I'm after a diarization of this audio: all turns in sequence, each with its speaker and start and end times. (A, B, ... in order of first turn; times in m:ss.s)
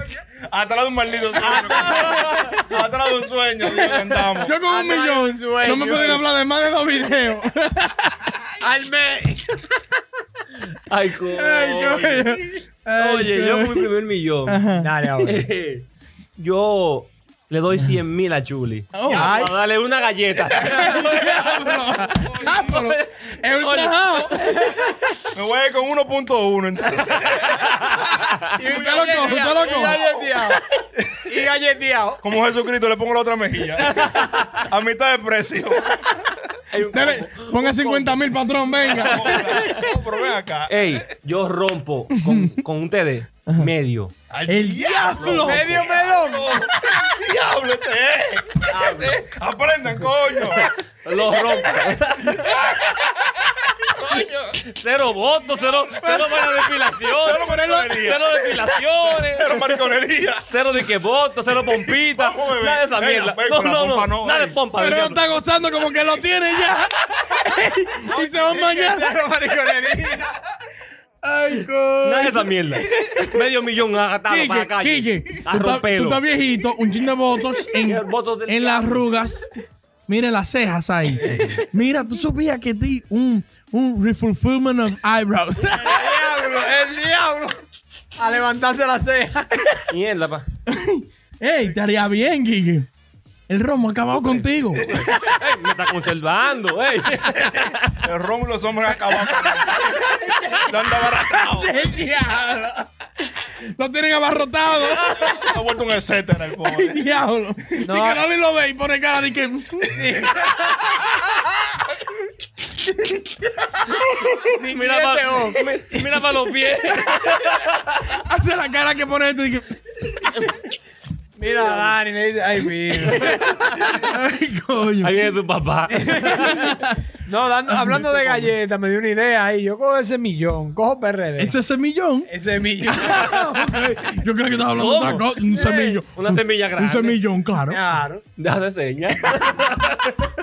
0:00.5-0:04.5 A
0:01.4-0:02.5 B
0:01.6-0:02.6 C
0:04.4-0:08.1 D
0:04.4-0:06.2 B
0:08.6-0:09.8 B
0:10.8-0:12.4 C
0:11.3-0:13.9 D
0:13.0-0:14.6 C
0:14.4-0:14.9 D
0:14.7-0:15.4 B
0:15.2-0:15.8 C
0:16.4-0:24.4 C
0:18.9-0:19.5 D
0:19.1-0:19.5 A
0:20.6-0:24.7 D
0:24.4-0:24.9 B
0:25.3-0:27.8 A
0:27.5-0:28.1 C
0:28.6-0:30.6 B
0:28.6-0:31.4 A
0:28.7-0:30.0 D
0:31.2-0:32.2 B
0:32.2-0:36.3 A
0:33.8-0:34.6 C
0:36.7-0:39.8 C
0:36.9-0:39.8 D
0:38.8-0:41.1 A
0:40.7-0:44.1 C
0:42.1-0:42.6 D
0:44.3-0:50.7 A
0:44.5-0:45.9 D
0:45.2-0:45.6 C
0:45.4-0:46.7 B
0:48.7-0:49.2 C
0:50.6-0:52.8 C
0:52.3-0:54.6 A
0:54.7-0:59.8 C
0:56.0-0:56.7 D
0:57.2-1:00.5 A
1:00.4-1:05.3 C
1:01.6-1:04.6 A
1:04.7-1:07.0 D
1:07.6-1:10.4 B
1:07.9-1:09.1 D
1:08.1-1:08.5 A
1:11.2-1:12.4 D
1:12.0-1:16.2 C
1:13.0-1:13.3 B
1:14.3-1:19.5 D
1:17.8-1:19.1 C
1:20.1-1:25.9 D
1:25.7-1:27.6 B
1:28.2-1:29.8 B
1:29.9-1:30.4 C
1:30.7-1:32.9 D
1:33.5-1:35.3 D
1:34.1-1:38.0 C
1:38.0-1:41.8 A
1:40.2-1:42.9 D
1:43.6-1:45.4 D
1:44.8-1:45.2 C
1:45.0-1:47.0 A
1:46.6-1:49.9 D
1:47.8-1:48.2 B
1:49.9-1:51.0 B
1:54.4-1:58.1 C
1:54.4-1:55.7 B
1:58.2-2:00.5 D
2:01.4-2:04.0 B
2:01.5-2:01.9 C
2:04.0-2:05.3 D
2:05.0-2:06.7 C
2:05.9-2:06.6 B
2:06.4-2:07.0 D
2:07.2-2:11.6 B
2:07.7-2:08.5 D
2:11.4-2:12.3 D
2:12.3-2:13.4 B
2:12.9-2:17.8 D
2:14.6-2:17.2 C
2:15.5-2:16.0 B
2:17.7-2:18.2 B
2:18.4-2:20.3 C